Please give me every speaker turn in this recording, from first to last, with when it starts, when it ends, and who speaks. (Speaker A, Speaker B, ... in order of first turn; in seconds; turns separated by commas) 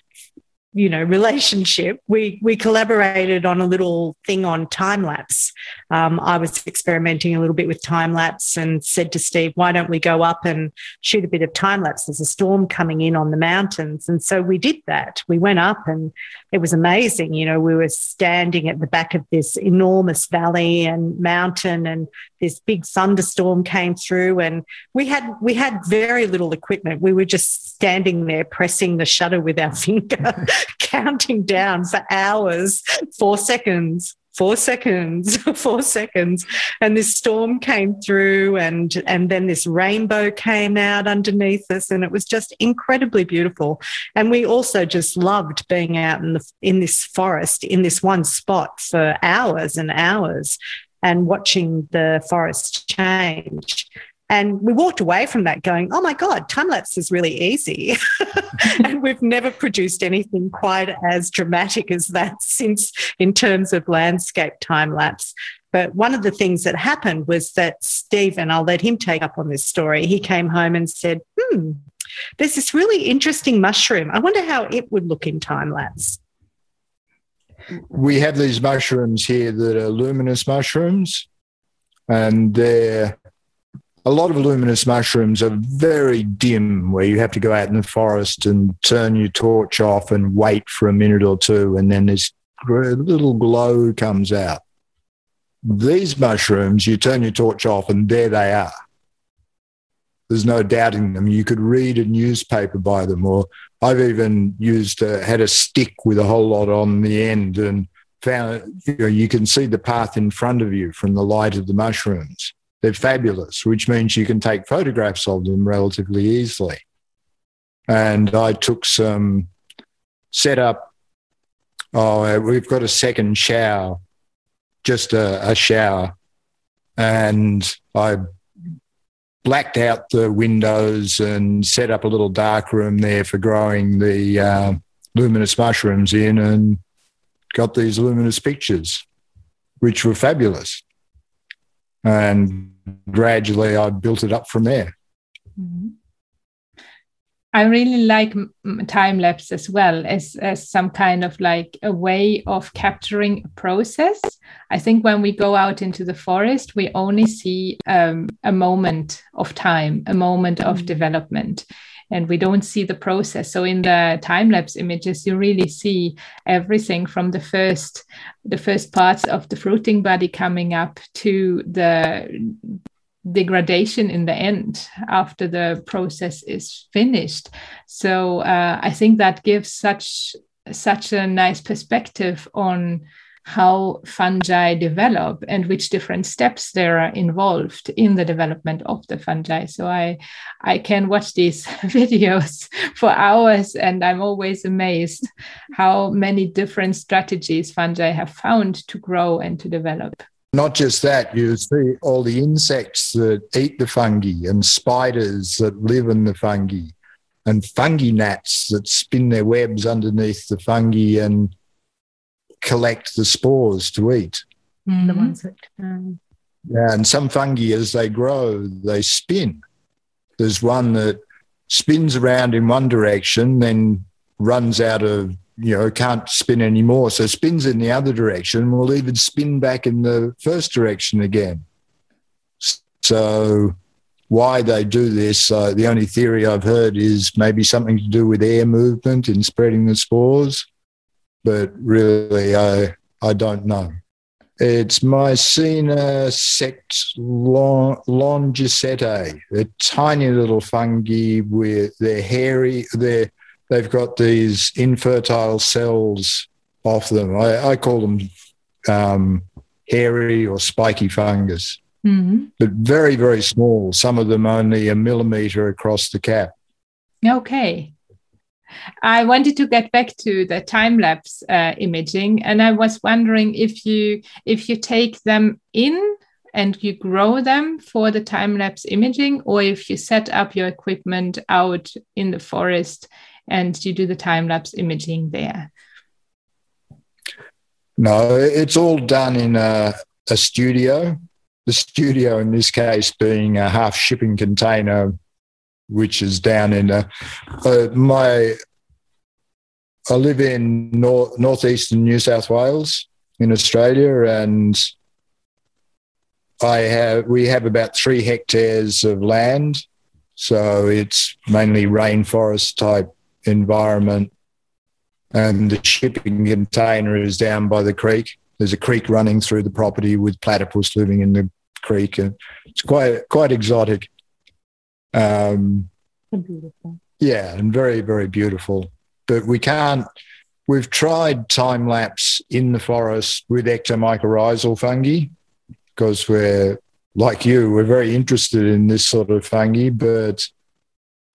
Speaker A: 0.7-71.8, Speaker A: 72.4-76.2, Speaker B: 77.9-81.3, Speaker B: 82.1-83.1, Speaker B: 84.0-94.6, Speaker B: 95.6-98.7, Speaker B: 100.3-116.8, Speaker B: 117.9-119.5, Speaker B: 120.3-120.9, Speaker B: 121.9-124.0, Speaker B: 124.8-126.1, Speaker B: 127.0-128.2, Speaker B: 129.4-136.8, Speaker B: 137.5-139.0, Speaker B: 139.8-140.8, Speaker B: 142.0-144.9, Speaker C: 145.6-145.9, Speaker C: 147.5-200.2, Speaker B: 200.5-206.9, Speaker B: 207.4-211.5, Speaker B: 212.6-214.4, Speaker C: 214.9-215.3, Speaker A: 215.0-216.2, Speaker B: 216.7-219.6, Speaker B: 220.4-221.2, Speaker B: 221.7-231.6, Speaker B: 232.6-233.8, Speaker B: 234.3-240.7, Speaker B: 241.4-243.9, Speaker B: 244.6-258.3, Speaker B: 258.8-261.8, Speaker C: 262.0-262.5, Speaker B: 262.6-266.5, Speaker C: 267.2-267.9, Speaker C: 269.0-285.7, Speaker B: 288.0-295.2, Speaker B: 295.9-298.6, Speaker B: 300.1-304.9, Speaker B: 306.6-309.8, Speaker B: 310.4-314.3, Speaker B: 315.3-324.1, Speaker B: 325.1-325.9, Speaker A: 326.3-327.0, Speaker B: 327.2-330.0, Speaker B: 330.7-335.3, Speaker B: 335.9-340.5